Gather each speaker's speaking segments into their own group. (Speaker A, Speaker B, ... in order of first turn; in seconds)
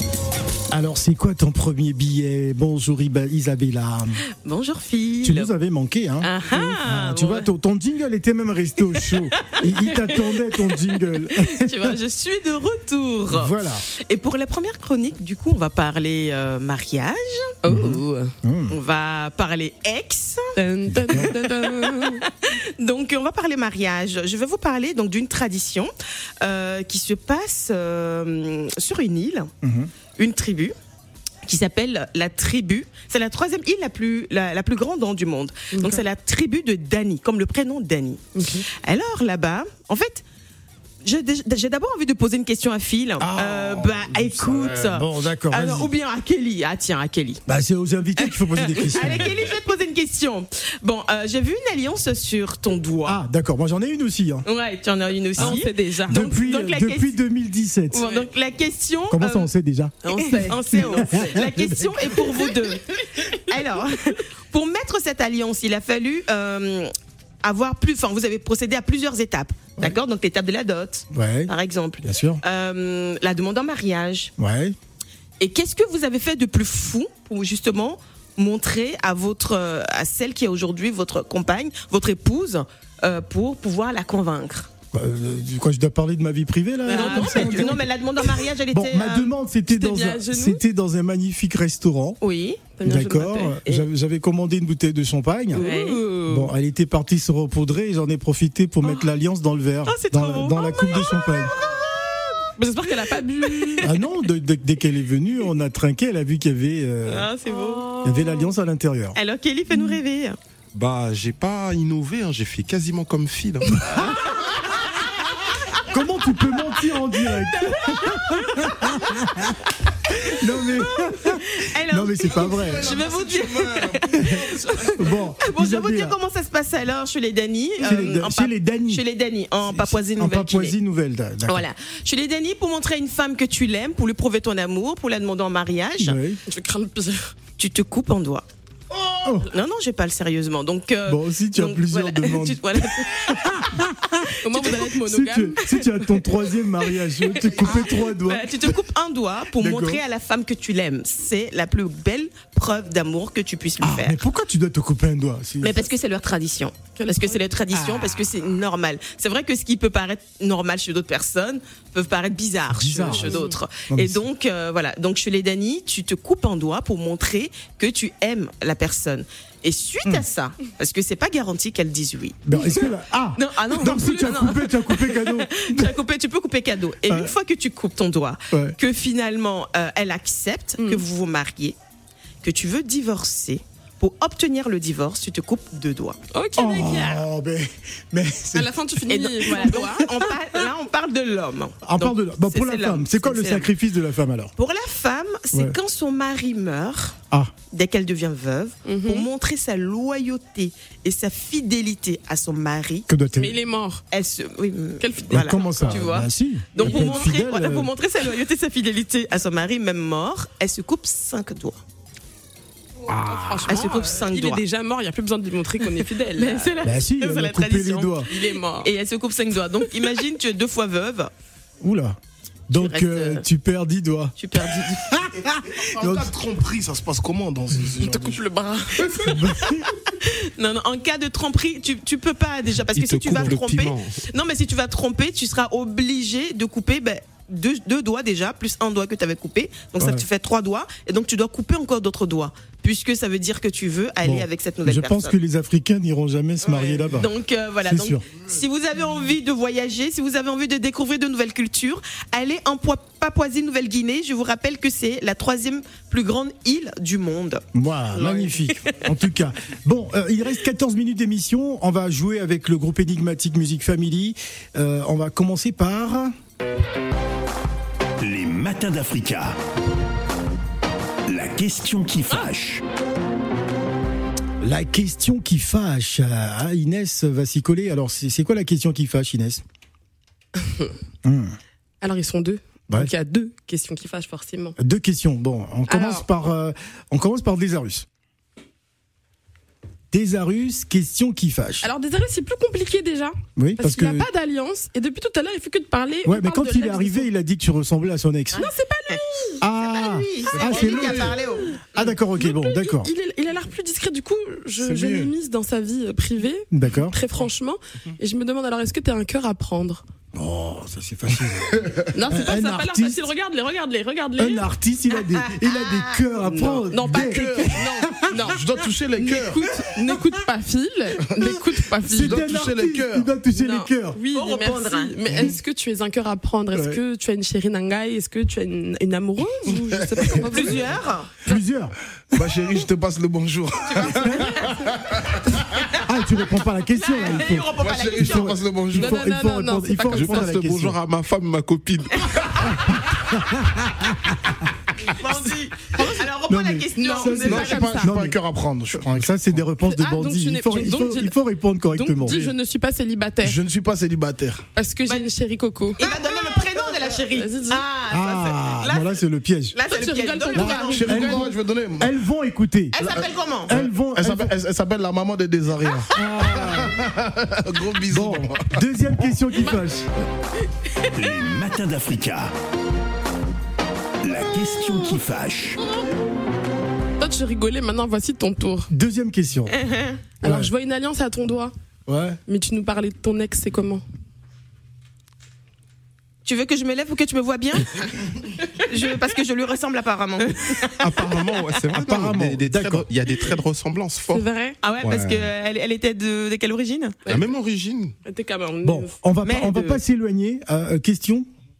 Speaker A: 0.7-4.2, 5.2-12.0, 13.3-13.8, 17.7-18.8, 21.0-21.3, 29.6-29.9, 43.2-45.9, 47.5-49.5, 53.0-54.5, 55.4-58.0, 59.1-62.1, 71.1-71.5, 72.0-72.4, 74.4-74.8, 84.9-87.9, 88.7-92.2, 92.8-95.7, 96.2-101.5, 103.8-107.3, 108.0-109.2, 115.9-122.9, 124.1-126.2, 127.8-129.0, 129.6-131.7, 136.0-136.4, 139.2-139.5, 141.1-148.8, 149.6-150.0, 153.8-155.9, 157.7-158.2, 162.7-164.2, 172.4-175.9, 177.1-177.3, 186.5-188.8, 189.5-190.1, 191.8-194.5, 203.1-203.6, 205.3-207.9, 213.1-213.9, 216.8-218.3, 221.8-226.3, 229.1-229.9, 233.3-233.5, 240.0-240.2, 244.2-248.2, 257.7-266.3, 274.6-279.6, 281.2-281.6, 284.8-288.1, 290.1-291.9, 293.6-294.3, 296.2-298.6, 299.6-303.1, 306.7-307.2, 310.3-313.2, 314.4-318.6, 322.0-324.2, 326.7-327.0, 331.4-332.5, 333.9-334.6, 336.0-341.0, 342.9-344.4, 346.4-348.4, 348.9-352.5, 358.1-359.8, 360.5-363.1, 363.7-364.5, 366.1-367.0, 368.1-370.1, 378.9-379.7, 380.4-380.7, 382.1-382.4, 391.9-393.1, 398.8-401.5
Speaker B: 4.4-5.5, 6.2-7.5, 9.4-10.3, 11.3-17.6, 18.7-20.6, 21.1-29.5, 30.1-30.7, 31.4-40.2, 41.0-47.4, 48.2-53.2, 54.5-57.1, 57.9-59.5, 60.0-66.9, 67.4-74.3, 75.4-84.7, 86.8-89.3, 92.2-92.8, 95.5-96.5, 99.8-102.5, 107.0-107.9, 109.1-110.4, 117.5-118.9, 120.8-130.7, 131.5-136.2, 137.6-138.4, 139.4-143.7, 144.4-144.9, 147.3-154.2, 155.6-181.8, 182.4-186.2, 189.1-193.7, 194.6-197.2, 197.7-203.1, 204.1-211.8, 213.7-214.6, 216.0-221.3, 222.8-223.4, 224.4-225.2, 230.2-245.3, 246.7-259.1, 298.5-301.7, 315.3-316.9, 324.3-325.2, 330.4-331.4, 336.9-338.6, 345.0-348.1, 356.0-359.2, 359.7-361.4, 362.9-363.8, 379.8-380.3, 386.4-388.1, 388.8-391.8, 394.8-397.2, 399.4-400.0
Speaker C: 17.6-18.3, 20.6-22.2, 35.7-36.0, 38.3-38.6, 55.4-56.3, 57.9-58.3, 60.0-61.4, 86.8-87.8, 89.7-90.6, 92.8-93.8, 95.5-96.2, 102.6-103.9, 107.5-108.5, 136.5-137.3, 144.4-146.2, 156.9-157.4, 163.1-163.6, 180.8-181.0, 186.3-187.2, 188.5-190.1, 198.8-199.3, 203.3-204.0, 205.0-206.1, 206.8-207.3, 213.1-216.9, 218.2-218.9, 228.0-229.5, 280.6-280.9, 282.0-284.8, 285.9-286.3, 291.8-297.3, 298.5-299.6, 301.6-310.0, 312.1-314.6, 316.5-318.6, 319.2-322.4, 323.5-331.0, 338.9-340.6, 345.9-346.3, 346.9-348.2, 349.8-353.6, 354.7-356.1, 357.0-357.8, 359.9-361.5, 369.6-369.9, 375.8-376.1, 377.2-378.9, 380.4-381.7, 382.5-384.0, 394.3-394.8, 398.2-399.2
Speaker D: 110.7-114.0, 232.9-234.2, 340.1-342.7, 391.0-394.4, 395.0-395.5, 397.3-398.1
Speaker E: 122.4-125.0, 225.8-228.4, 300.5-301.4, 304.8-305.3, 317.0-319.9, 321.2-321.5, 322.1-323.3, 329.7-330.4, 332.3-335.6, 337.7-339.3, 347.4-349.7, 352.2-352.5, 353.4-354.6, 360.9-362.1, 363.0-368.8
Speaker F: 268.2-269.6, 271.3-272.8, 371.1-372.5, 374.2-375.8